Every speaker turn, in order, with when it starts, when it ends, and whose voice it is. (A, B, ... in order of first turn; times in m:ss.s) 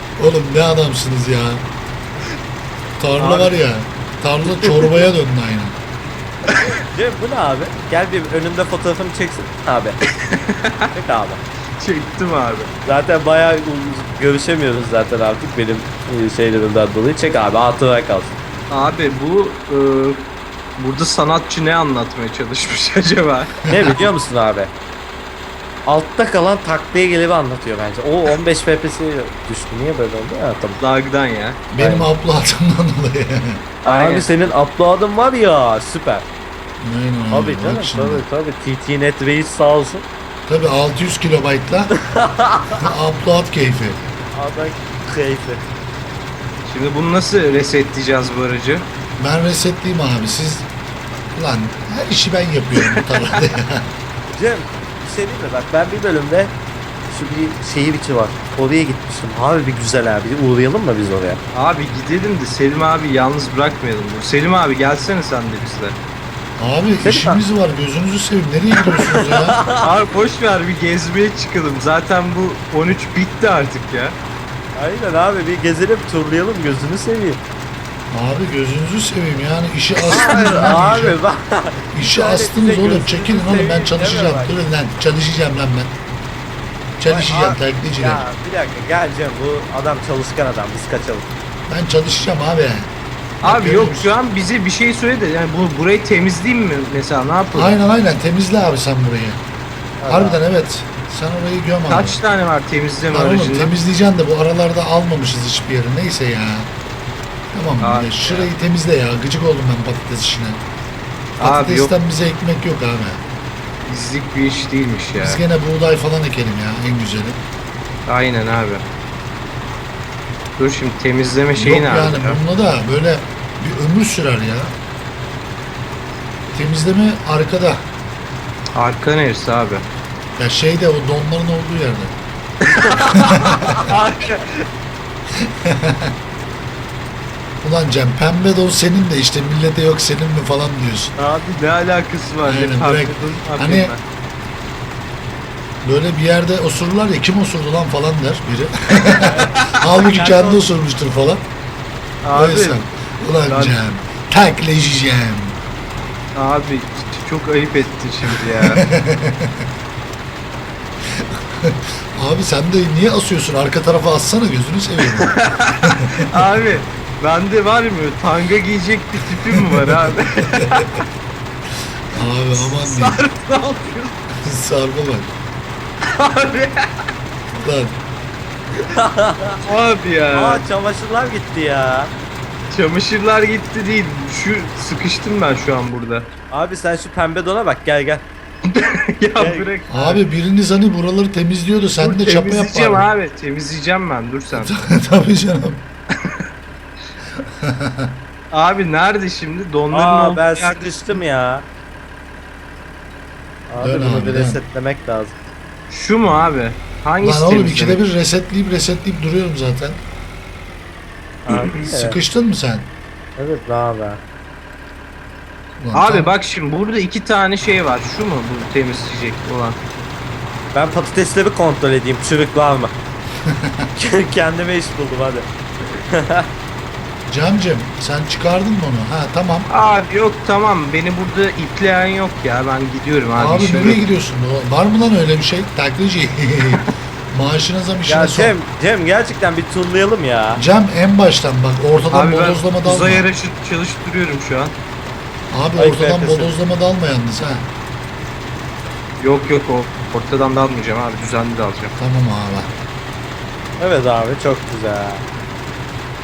0:00.2-0:01.7 A
0:03.0-0:05.8 A
0:03.2-0:03.5 B
0:04.6-0:04.9 B
0:06.6-0:10.0 C
0:10.2-0:10.9 B
0:10.9-0:11.4 C
0:11.8-0:12.7 B
0:12.8-0:18.4 C
0:18.7-0:24.1 B
0:23.7-0:24.7 C
0:25.9-0:30.8 C
0:30.8-0:31.6 B
0:31.7-0:33.6 A
0:31.8-0:32.1 C
0:33.8-0:34.3 B
0:33.8-0:36.3 C
0:36.8-0:38.2 A
0:37.3-0:40.1 C
0:40.5-0:42.0 A
0:42.1-0:42.9 C
0:42.7-0:44.0 A
0:44.3-0:45.7 C
0:46.6-0:48.9 B
0:49.2-0:50.7 A
0:51.4-0:53.9 A
0:52.8-0:53.4 B
0:54.3-0:56.6 C
0:57.1-1:01.4 C
1:01.5-1:06.0 B
1:06.6-1:09.6 A
1:07.0-1:07.4 C
1:08.8-1:09.9 C
1:09.8-1:14.2 B
1:14.8-1:17.4 C
1:18.1-1:21.2 A
1:20.1-1:24.6 C
1:21.9-1:26.0 A
1:27.0-1:28.2 A
1:27.1-1:31.3 C
1:31.7-1:32.9 A
1:33.4-1:37.8 B
1:33.4-1:34.1 A
1:37.5-1:39.4 A
1:40.0-1:40.4 C
1:40.1-1:42.2 A
1:41.9-1:43.7 B
1:43.1-1:46.7 A
1:47.5-1:50.6 A
1:47.8-1:48.5 B
1:51.4-1:53.2 A
1:51.4-1:51.9 B
1:53.8-1:55.4 B
1:55.2-1:57.4 A
1:58.1-1:58.9 B
2:00.6-2:02.4 B
2:01.6-2:04.8 A
2:06.5-2:07.9 A
2:08.8-2:09.9 B
2:10.4-2:12.2 A
2:12.6-2:14.7 B
2:13.2-2:13.9 A
2:15.4-2:16.1 A
2:17.6-2:21.2 A
2:21.2-2:24.0 B
2:22.4-2:23.9 A
2:25.8-2:31.4 A
2:29.1-2:30.6 C
2:29.6-2:29.8 B
2:32.2-2:32.8 B
2:32.3-2:35.6 A
2:33.5-2:33.8 B
2:36.4-2:38.8 B
2:38.3-2:39.7 A
2:41.1-2:46.7 A
2:45.0-2:51.0 B
2:49.5-2:50.0 A
2:50.5-2:50.8 A
2:52.1-2:53.2 A
2:52.5-2:54.2 B
2:54.4-2:55.3 A
2:56.1-2:56.9 B
2:57.5-2:58.0 A
2:58.9-2:59.6 C
2:59.6-3:00.6 B
3:00.3-3:02.1 C
3:02.7-3:06.3 B
3:06.5-3:08.3 C
3:08.7-3:10.2 B
3:09.4-3:09.7 C
3:09.9-3:13.1 A
3:12.0-3:14.7 B
3:14.5-3:15.8 A
3:16.2-3:16.5 B
3:17.6-3:18.1 A
3:18.5-3:21.2 B
3:19.9-3:21.7 C
3:23.7-3:25.4 C
3:23.8-3:24.6 A
3:25.9-3:28.0 B
3:27.2-3:30.0 A
3:31.5-3:32.2 C
3:31.8-3:32.9 A
3:33.4-3:34.2 C
3:35.8-3:36.4 A
3:35.9-3:39.8 B
3:40.7-3:42.9 C
3:43.5-3:43.8 A
3:44.0-3:45.5 C
3:46.1-3:46.5 C
3:47.3-3:49.7 A
3:49.7-3:54.0 B
3:53.4-3:58.6 A
3:58.1-4:00.6 C
4:00.6-4:03.3 A
4:02.1-4:04.8 B
4:05.5-4:07.7 A
4:05.8-4:06.6 C
4:09.2-4:11.9 B
4:12.0-4:12.7 A
4:13.8-4:15.2 C